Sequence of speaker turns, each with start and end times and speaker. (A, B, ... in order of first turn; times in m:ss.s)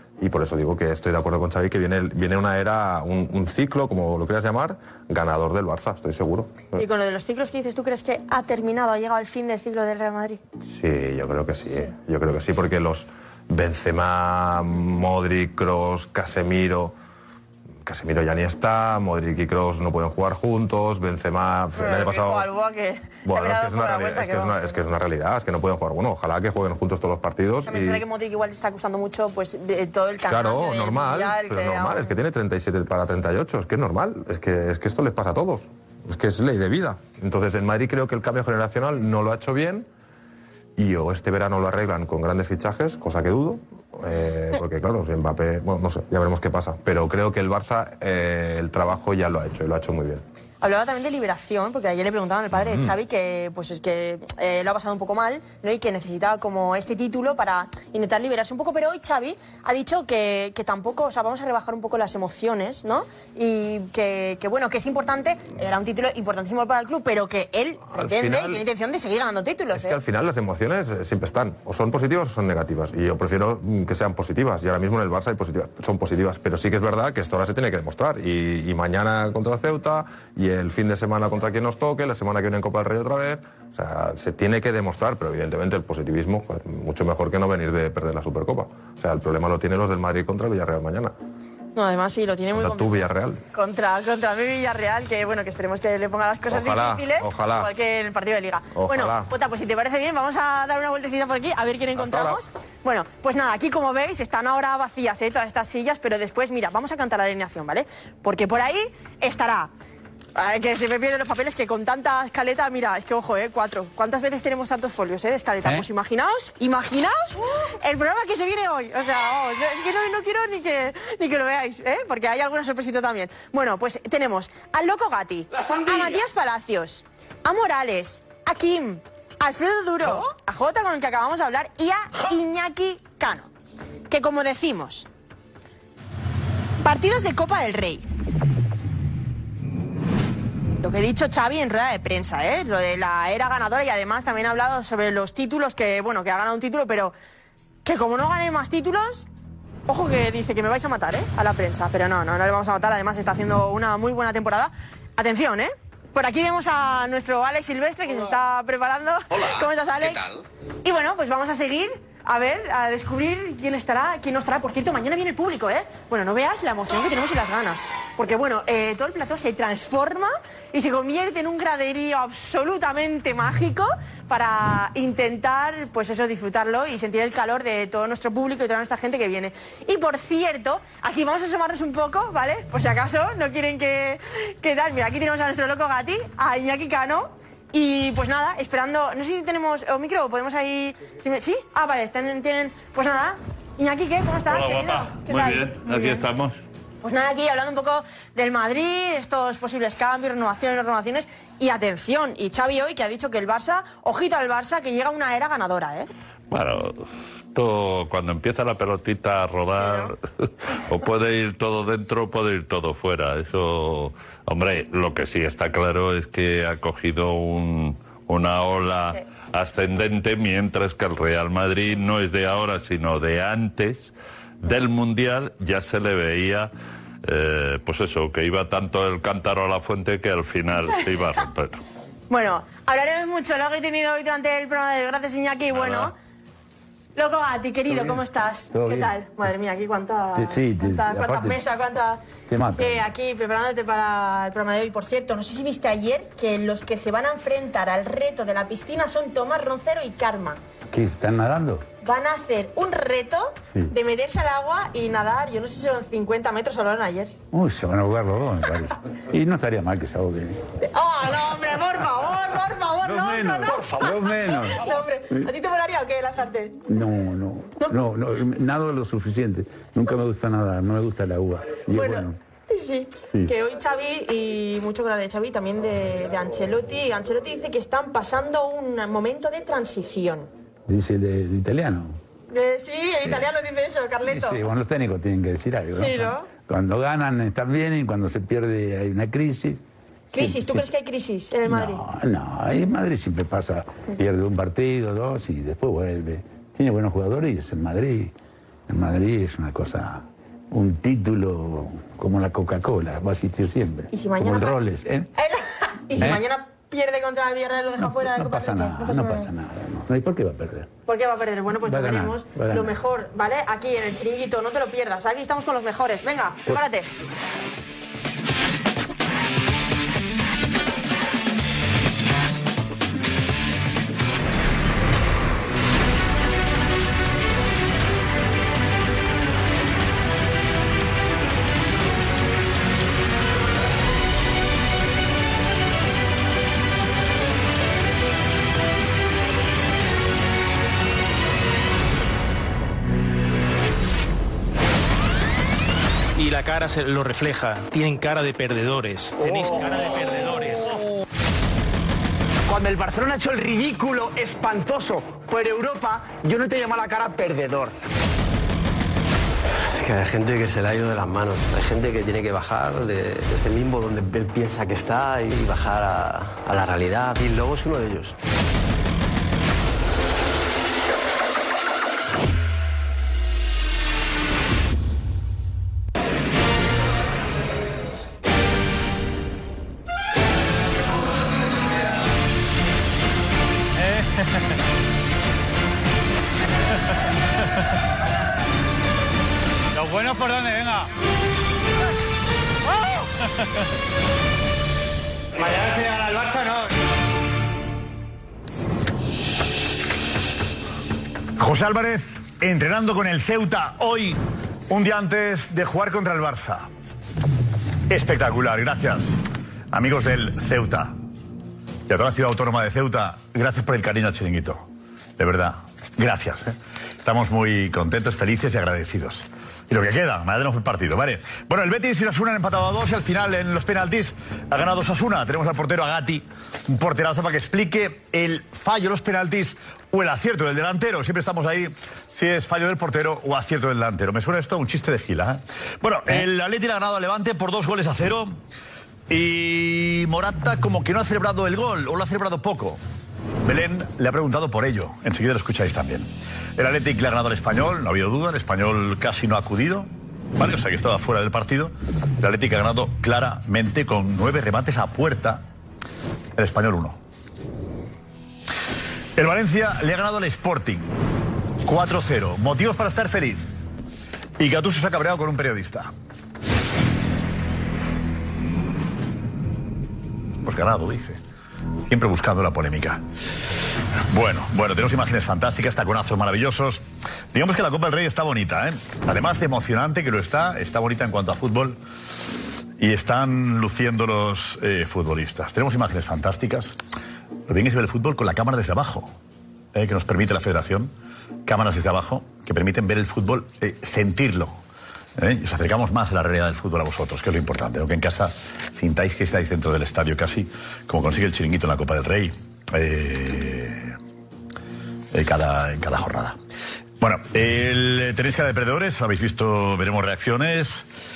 0:00.2-0:06.8 A
0:06.8-0:10.4 B
0:10.6-0:17.0 A
0:17.8-0:22.5 A
0:21.8-0:24.9 B
0:23.2-0:28.0 A
0:27.7-0:32.1 B
0:30.2-0:39.9 A
0:40.8-0:50.2 A
0:50.6-1:10.0 B
0:52.5-0:52.9 A
1:07.9-1:08.6 A
1:09.7-1:31.1 A
1:31.8-1:33.0 B
1:32.5-1:33.4 A
1:33.5-1:49.7 B
1:36.5-1:37.7 A
1:38.7-1:39.3 A
1:42.0-1:42.4 A
1:50.4-2:13.5 B
2:14.1-2:15.1 B
2:16.8-2:18.0 B
2:20.8-2:27.1 B
2:27.8-2:29.3 B
2:29.9-2:40.3 B
2:40.8-3:16.3 B
3:14.5-3:16.6 C
3:17.0-3:26.1 B
3:26.5-3:30.2 C
3:29.7-3:30.1 B
3:30.9-3:46.7 C
3:47.2-3:51.8 C
3:52.3-3:56.1 B
3:55.8-3:56.1 C
3:57.2-4:02.2 B
3:57.9-3:58.2 D
3:58.7-3:59.2 D
4:00.4-4:01.6 D
4:02.5-4:03.0 D
4:02.8-4:10.6 B
4:10.9-4:11.9 D
4:12.0-4:17.4 B
4:17.5-4:20.6 D
4:20.8-4:26.8 B
4:23.0-4:25.5 D
4:26.8-4:32.4 D
4:31.9-4:40.5 B
4:33.3-4:33.5 D
4:40.9-4:42.2 D
4:42.5-4:44.7 B
4:44.2-4:50.9 D
4:46.0-4:46.5 B
4:50.3-4:52.0 B
4:51.7-4:58.3 D
4:58.9-5:05.3 D
5:04.1-5:04.8 B
5:05.4-5:09.5 B
5:06.2-5:06.4 D
5:08.0-5:10.9 D
5:11.1-5:17.1 B
5:11.8-5:12.9 D
5:46.4-5:51.0 E
5:52.8-5:57.9 F
6:00.0-6:08.4 G
6:24.0-6:24.7 H
6:29.9-6:31.1 H
6:33.2-6:33.7 H
6:35.6-6:36.9 H
6:41.6-6:46.9 I
6:48.1-6:49.4 I
6:49.9-6:51.2 I
6:52.1-6:54.9 I
6:55.4-7:18.6 I
7:19.3-7:23.0 I
7:23.6-7:35.6 I
7:36.6-7:37.2 I
7:39.4-7:41.1 I
7:41.8-7:43.8 I
7:44.6-7:46.1 I
7:50.6-7:51.4 I
7:52.0-7:53.2 I
7:54.3-8:02.0 I
8:03.0-8:07.0 I
8:07.7-8:09.3 I
8:09.9-8:11.1 I
8:11.6-8:14.8 I
8:15.4-8:24.2 I
8:25.3-8:26.6 I
8:27.2-8:31.1 I